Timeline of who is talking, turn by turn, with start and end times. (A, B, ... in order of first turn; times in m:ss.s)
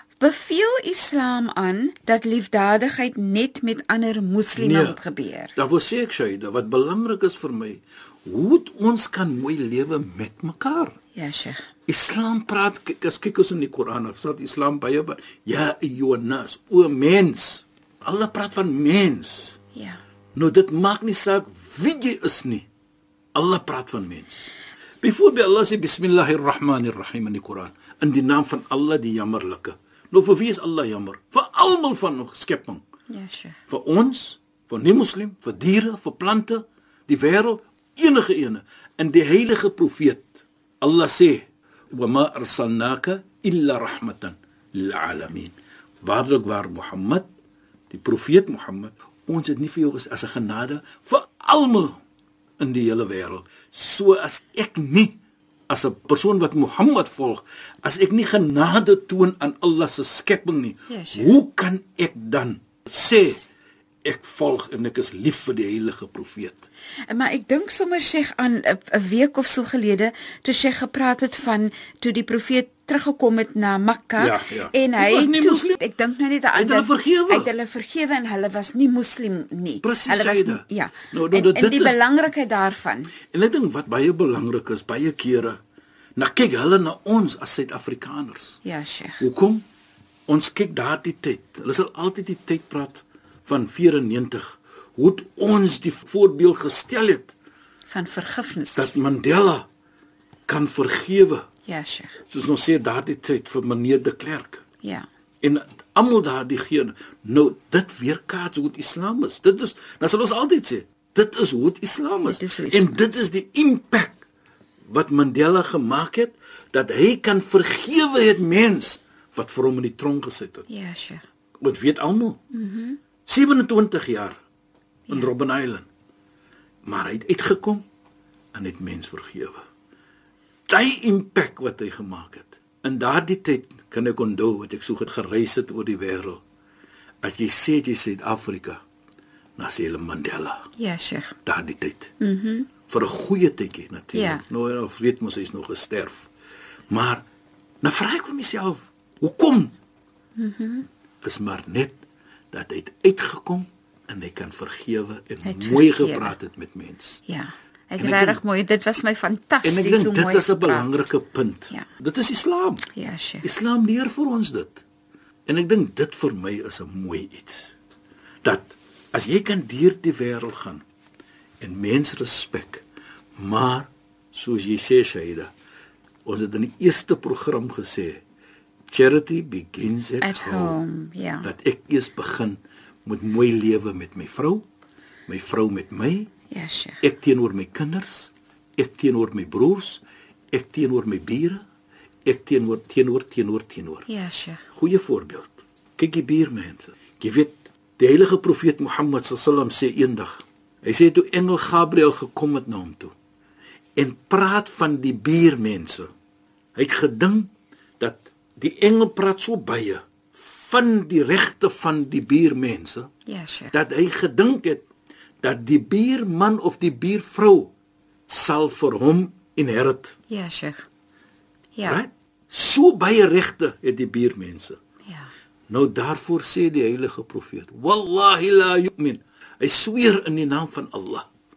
0:00.2-0:05.5 A
0:04.5-0:05.0 B
0:05.6-0:11.0 B
0:11.1-0:11.7 A
0:11.9-0:19.6 B
0:19.7-0:20.0 A
0:20.3-0:22.7 B
0:23.3-0:24.5 B
0:25.0-0:32.8 B
0:33.1-0:33.6 A
0:33.7-0:47.3 B
0:47.9-0:52.0 B
0:52.6-0:55.2 B
0:55.7-1:03.4 B
1:00.9-1:01.4 A
1:04.0-1:06.7 B
1:07.1-1:23.1 A
1:14.2-1:15.8 B
1:16.5-1:17.5 B
1:19.8-1:22.0 B
1:23.3-1:25.6 B
1:26.2-1:28.6 B
1:28.6-1:29.2 A
1:29.2-1:29.6 B
1:30.3-1:37.3 B
1:37.9-1:39.0 A
1:38.8-1:39.7 B
1:40.5-1:41.5 B
1:41.6-1:42.2 A
1:42.3-1:44.6 B
1:45.4-1:54.2 B
1:52.2-1:53.2 A
1:54.9-2:00.7 B
2:00.7-2:01.2 A
2:01.6-2:02.4 B
2:02.5-2:03.0 A
2:03.2-2:04.4 B
2:05.1-2:05.9 B
2:06.8-2:07.8 B
2:08.5-2:09.6 B
2:10.7-2:16.4 B
2:17.2-2:18.8 B
2:19.6-2:20.7 B
2:20.8-2:21.4 A
2:21.4-2:22.1 B
2:22.2-2:22.7 A
2:22.9-2:26.3 B
2:24.1-2:24.4 A
2:26.9-2:27.2 B
2:27.8-2:29.8 B
2:30.4-2:30.9 A
2:31.2-2:32.0 B
2:32.5-2:37.2 B
2:35.4-2:36.4 A
2:37.3-2:41.1 A
2:38.0-2:38.4 B
2:39.6-2:42.9 B
2:42.9-2:43.5 A
2:43.4-2:44.8 B
2:45.5-2:47.8 B
2:48.4-2:50.8 B
2:51.6-2:52.8 B
2:53.4-2:55.5 B
2:56.2-2:58.2 B
2:58.9-3:00.8 B
3:00.2-3:01.5 A
3:01.4-3:04.6 B
3:05.3-3:06.3 B
3:06.5-3:07.0 A
3:07.0-3:11.6 B
3:12.2-3:14.1 B
3:14.1-3:14.6 A
3:14.8-3:23.1 B
3:24.0-3:26.1 B
3:26.8-3:33.1 B
3:33.3-3:33.7 A
3:33.7-3:34.8 B
3:35.4-3:37.7 B
3:38.3-3:40.2 B
3:40.3-3:40.8 A
3:41.8-3:42.0 A
3:41.8-3:44.8 B
3:45.7-3:51.3 B